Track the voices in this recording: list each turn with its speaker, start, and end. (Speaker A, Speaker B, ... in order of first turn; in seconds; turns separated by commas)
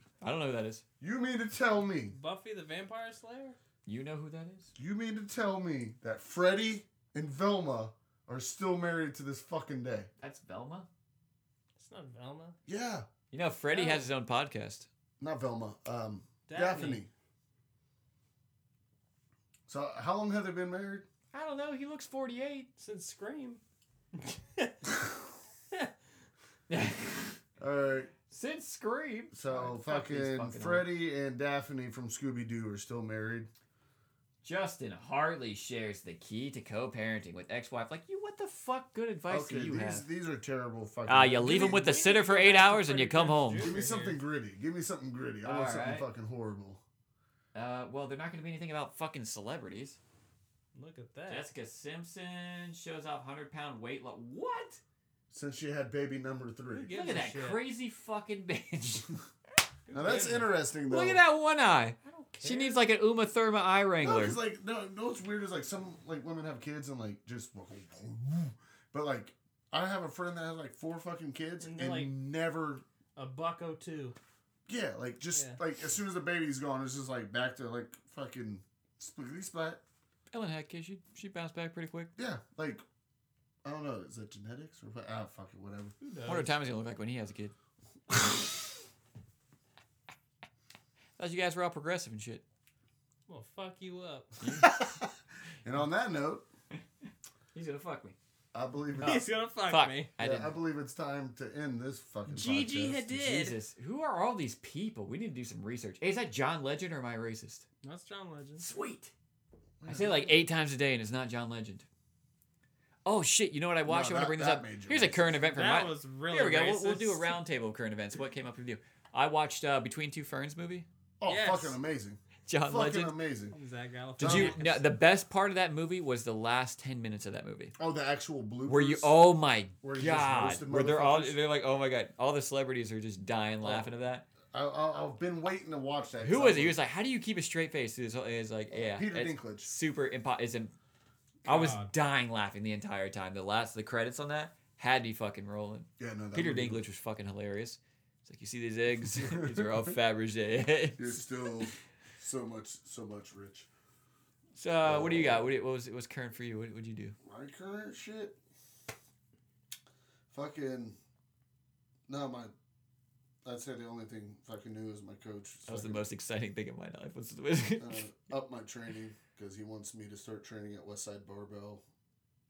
Speaker A: 0.2-0.8, Speaker B: 1.0-2.1, Speaker C: 2.1-3.6, Speaker A: 3.9-4.7, Speaker B: 4.8-10.1, Speaker A: 10.2-10.9, Speaker C: 11.8-12.6, Speaker B: 12.7-13.1, Speaker A: 13.3-14.9, Speaker C: 13.7-14.1, Speaker B: 15.2-17.1, Speaker C: 16.5-17.0, Speaker B: 19.7-21.1, Speaker A: 21.3-22.7, Speaker C: 22.8-23.6, Speaker C: 24.2-24.8, Speaker A: 26.7-27.4, Speaker B: 27.6-28.1, Speaker A: 28.3-30.9, Speaker B: 29.3-33.5, Speaker A: 34.4-40.1, Speaker B: 39.3-41.9, Speaker A: 41.1-43.7, Speaker C: 41.5-44.2, Speaker B: 43.6-46.8, Speaker A: 45.4-46.1, Speaker A: 47.5-50.0, Speaker C: 50.8-51.5, Speaker A: 51.3-54.8, Speaker B: 55.3-57.0, Speaker C: 56.7-57.6, Speaker A: 56.9-59.1, Speaker C: 59.9-60.5, Speaker B: 59.9-61.2, Speaker A: 60.9-64.4, Speaker C: 62.0-62.8, Speaker B: 64.0-72.8, Speaker C: 71.6-72.2, Speaker C: 73.2-74.2, Speaker B: 74.7-79.8, Speaker C: 75.3-75.6, Speaker A: 80.3-82.1, Speaker B: 82.2-82.8, Speaker B: 83.6-86.0, Speaker C: 86.0-86.5, Speaker A: 86.3-87.5, Speaker A: 91.2-92.4, Speaker C: 93.3-94.3, Speaker A: 94.4-94.8, Speaker B: 94.6-95.1, Speaker B: 95.7-96.5, Speaker A: 97.5-98.2, Speaker B: 98.5-99.2, Speaker C: 99.0-100.1, Speaker A: 99.0-100.6, Speaker B: 100.2-103.2, Speaker C: 102.3-103.6, Speaker A: 103.2-107.7, Speaker C: 107.8-108.7, Speaker A: 108.6-109.1, Speaker B: 109.8-110.3, Speaker A: 109.8-111.9, Speaker A: 113.0-120.9, Speaker B: 113.9-115.7, Speaker C: 115.5-117.4, Speaker B: 121.2-123.6, Speaker C: 121.3-121.8, Speaker A: 122.5-123.2, Speaker C: 123.5-124.8, Speaker B: 124.2-124.7, Speaker A: 124.2-127.8, Speaker B: 127.8-129.1, Speaker A: 128.7-134.3, Speaker B: 129.8-131.4, Speaker C: 133.6-133.9, Speaker B: 134.5-136.8, Speaker A: 136.2-140.7, Speaker B: 138.7-139.7, Speaker C: 141.4-141.9, Speaker A: 141.5-151.2, Speaker B: 146.0-146.8, Speaker B: 149.3-149.9, Speaker B: 151.0-153.7, Speaker A: 154.6-157.2, Speaker B: 154.8-155.5, Speaker B: 157.2-158.4, Speaker B: 160.3-161.0, Speaker B: 162.1-162.5, Speaker B: 163.4-166.0, Speaker A: 165.7-168.0, Speaker B: 167.8-171.8